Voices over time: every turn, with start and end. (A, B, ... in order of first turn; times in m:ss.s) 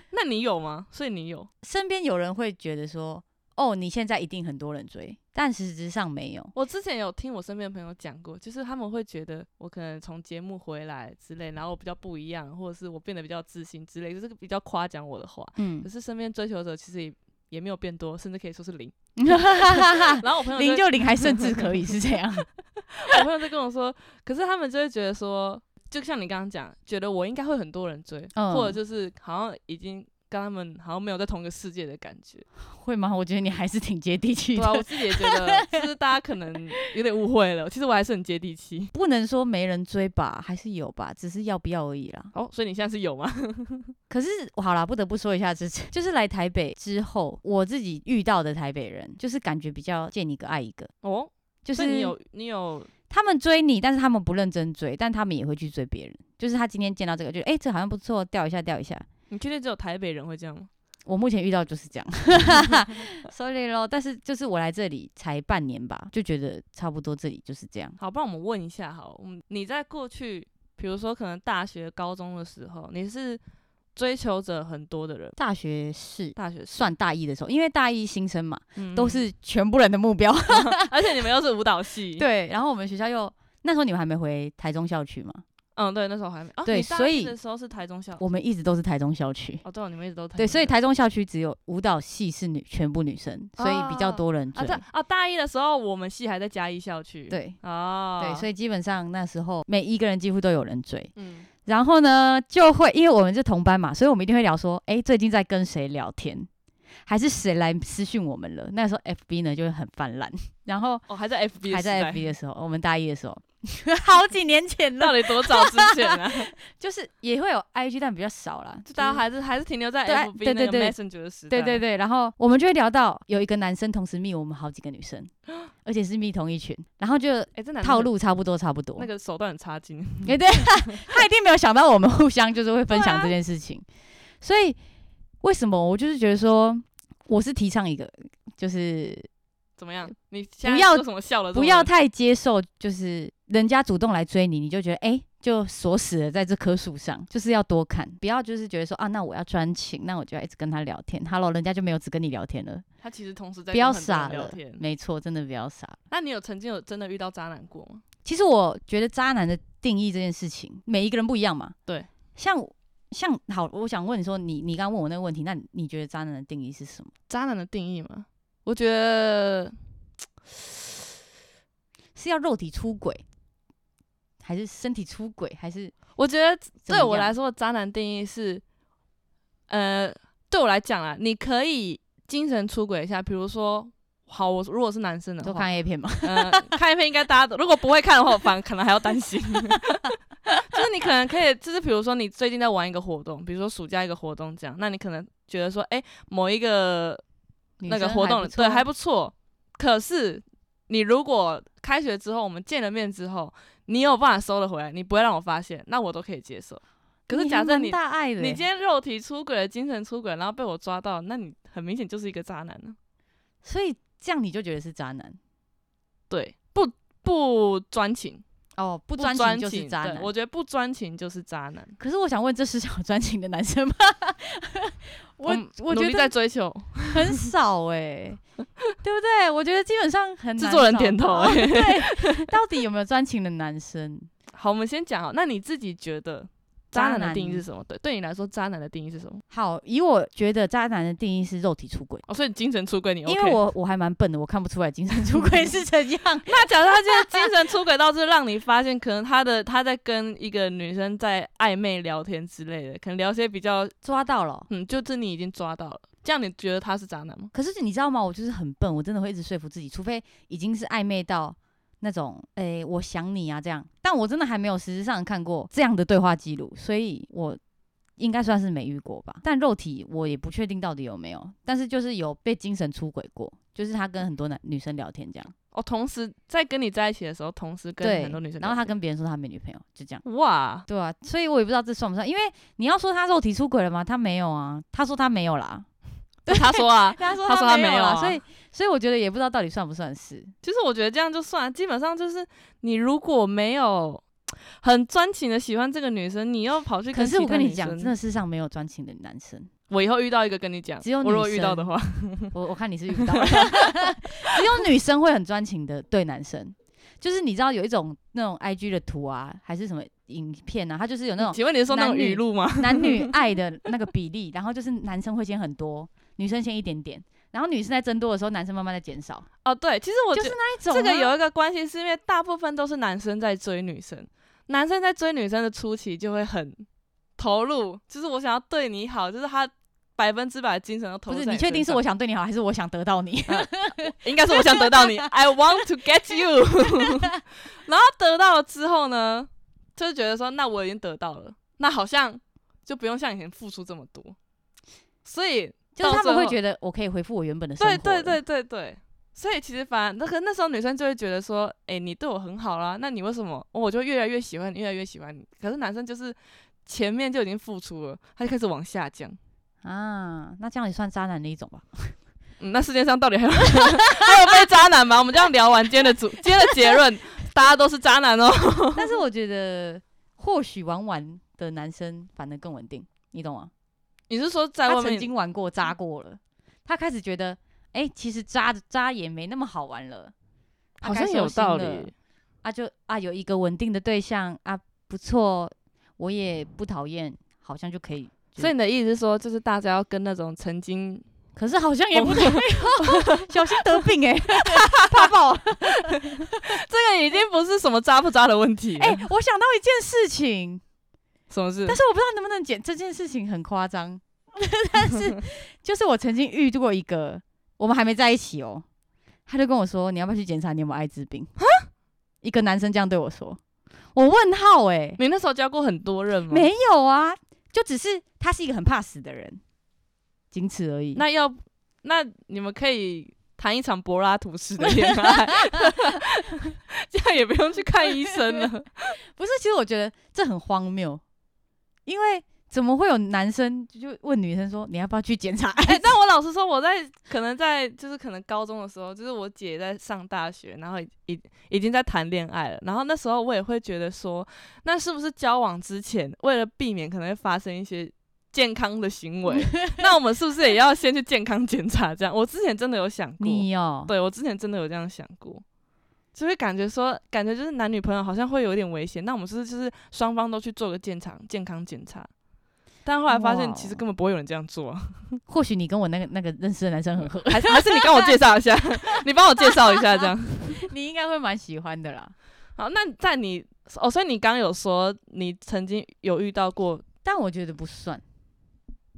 0:00.1-0:01.5 A
0:01.6-0:06.5 B
0:06.5-0:21.6 A
0:15.6-0:15.9 B
0:19.2-0:22.5 B
0:23.0-0:32.4 A
0:28.3-0:28.8 B
0:32.6-0:35.9 B
0:34.5-0:38.9 A
0:38.9-0:42.3 B
0:42.3-0:43.9 A
0:44.1-0:50.9 B
0:51.0-0:52.9 A
0:51.6-0:52.1 B
0:53.1-0:59.0 B
0:59.3-1:00.7 A
1:01.0-1:08.0 B
1:08.0-1:13.4 A
1:14.0-1:15.4 A
1:15.4-1:20.9 B
1:16.4-1:16.9 A
1:18.8-1:19.2 A
1:20.5-1:22.2 A
1:22.2-1:25.4 B
1:25.8-1:28.2 A
1:26.6-1:27.3 B
1:28.2-1:29.6 B
1:29.6-1:30.7 A
1:30.4-1:34.8 B
1:33.6-1:38.5 A
1:37.3-1:37.6 B
1:38.2-1:41.1 B
1:41.2-1:41.5 A
1:41.6-1:46.5 B
1:47.0-1:51.0 B
1:51.1-1:52.3 A
1:51.6-1:59.2 B
1:55.0-1:56.5 A
1:58.8-2:01.8 A
2:00.0-2:01.0 B
2:01.5-2:09.1 B
2:07.5-2:08.1 A
2:09.0-2:11.1 A
2:10.2-2:13.8 B
2:12.9-2:13.4 A
2:14.4-2:14.8 B
2:15.4-2:19.3 B
2:19.8-2:21.9 A
2:20.6-2:32.8 B
2:33.0-2:34.8 A
2:33.7-2:36.0 B
2:36.1-2:38.0 A
2:38.2-2:41.7 B
2:42.4-2:47.1 B
2:47.3-2:49.8 A
2:52.1-2:53.2 B
2:54.4-2:55.9 B
2:56.2-2:58.6 A
2:56.8-2:57.3 B
2:59.7-3:05.7 A
3:05.4-3:06.7 B
3:06.2-3:10.1 A
3:10.7-3:17.2 A
3:17.8-3:18.8 B
3:17.9-3:33.0 A
3:27.3-3:28.6 B
3:33.6-3:35.4 B
3:36.3-3:38.4 A
3:38.8-3:40.3 B
3:39.2-3:42.0 A
3:42.0-3:46.3 B
3:45.4-3:47.4 A
3:47.1-3:48.4 B
3:49.0-3:54.3 B
3:50.6-3:52.5 A
3:54.5-3:59.4 A
3:56.9-3:57.6 B
3:59.5-4:02.2 B
4:02.3-4:03.6 A
4:03.2-4:06.6 B
4:06.4-4:13.9 A
4:14.0-4:14.7 B
4:14.7-4:17.5 A
4:17.5-4:27.6 B
4:28.2-4:35.5 B
4:35.7-4:38.9 A
4:38.0-4:40.2 B
4:40.2-4:40.8 A
4:40.9-4:45.9 B
4:46.5-4:48.4 A
4:46.5-4:50.5 B
4:50.6-4:58.1 A
4:57.1-4:59.7 B
4:59.9-5:02.5 A
5:01.0-5:01.9 B
5:02.5-5:19.5 B
5:03.2-5:04.2 A
5:11.4-5:13.3 A
5:19.6-5:26.8 A
5:20.3-5:21.3 B
5:27.4-5:32.0 A
5:31.3-5:35.3 B
5:33.5-5:44.4 A
5:45.2-5:46.6 A
5:46.0-5:48.4 B
5:47.8-5:59.4 A
5:59.8-6:02.1 B
6:02.6-6:09.1 A
6:03.7-6:04.2 B
6:08.9-6:13.7 B
6:14.3-6:15.3 A
6:14.9-6:20.3 B
6:21.0-6:22.1 B
6:21.0-6:22.1 A
6:22.6-6:28.7 B
6:28.6-6:31.2 A
6:31.6-6:36.7 B
6:32.1-6:34.0 A
6:34.6-6:35.3 A
6:35.9-6:39.2 A
6:39.0-6:40.8 B
6:41.5-6:42.0 A
6:41.9-6:48.8 B
6:49.5-6:51.5 B
6:52.4-6:53.6 B
6:54.1-6:55.2 B
6:55.2-6:56.7 A
6:56.5-6:59.6 B
7:00.5-7:01.2 B
7:01.2-7:09.2 A
7:04.8-7:05.9 B
7:09.3-7:11.2 B
7:12.0-7:16.1 B
7:15.8-7:35.6 A
7:29.5-7:30.0 B
7:33.4-7:34.1 B
7:36.3-7:42.3 A
7:43.0-7:45.4 A
7:43.3-7:44.0 B
7:45.5-7:48.3 B
7:47.5-7:50.8 A
7:50.2-7:52.3 B
7:52.8-7:57.0 A
7:57.2-7:58.2 B